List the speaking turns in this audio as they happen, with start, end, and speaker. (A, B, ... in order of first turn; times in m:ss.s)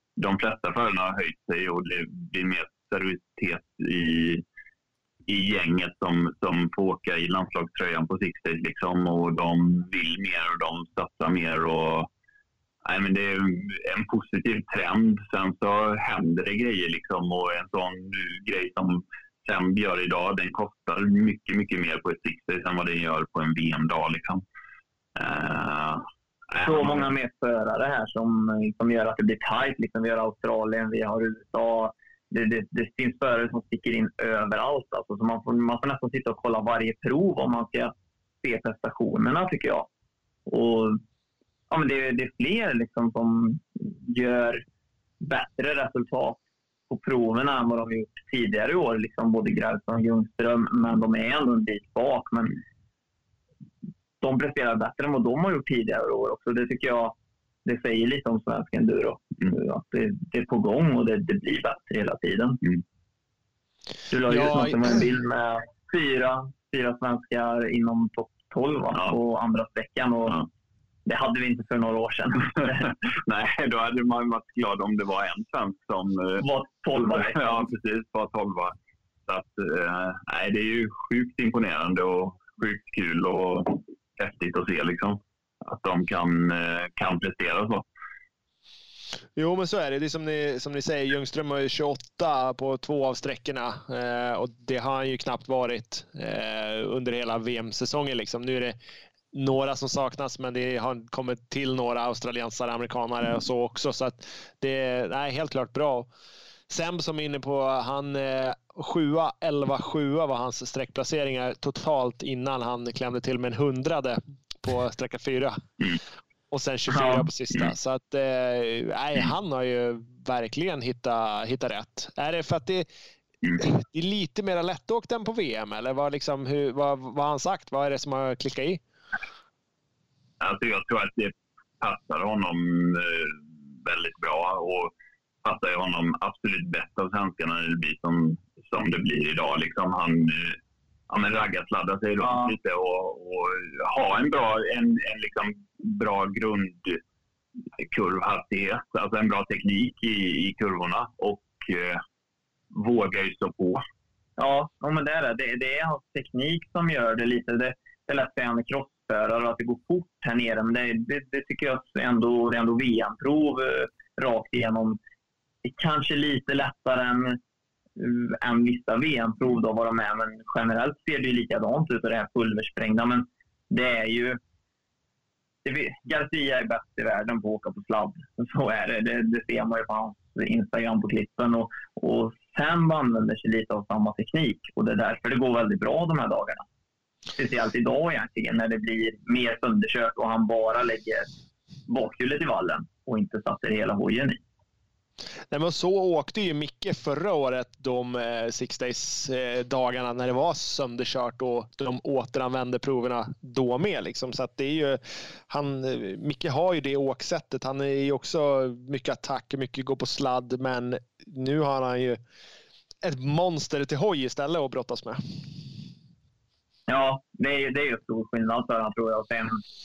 0:00.2-0:04.4 A
0:05.3-0:12.1 A
0:12.8-0:24.4 A
0:25.2-0:27.1 A
0:26.6-0:39.9 B
0:40.5-0:41.0 B
0:41.7-0:44.6 B
0:45.2-0:52.6 B
0:54.2-1:02.6 B
1:04.1-1:10.4 B
1:04.3-1:05.1 C
1:11.1-1:12.9 B
1:12.8-1:18.7 A
1:16.4-1:17.7 B
1:19.3-1:27.8 A
1:29.4-1:38.8 C
1:39.3-1:46.1 C
1:46.7-1:55.6 C
1:56.5-2:02.9 C
1:56.9-1:57.3 B
2:03.6-2:08.8 C
2:10.4-2:14.9 A
2:15.4-2:27.0 A
2:22.2-2:22.5 B
2:27.8-2:32.0 A
2:32.7-2:33.8 A
2:34.4-2:45.0 B
2:45.6-2:47.4 B
2:48.0-2:54.4 B
2:55.6-3:06.6 B
3:07.4-3:11.3 B
3:11.9-3:14.4 B
3:15.5-3:32.2 C
3:33.0-3:35.2 C
3:36.9-3:39.6 B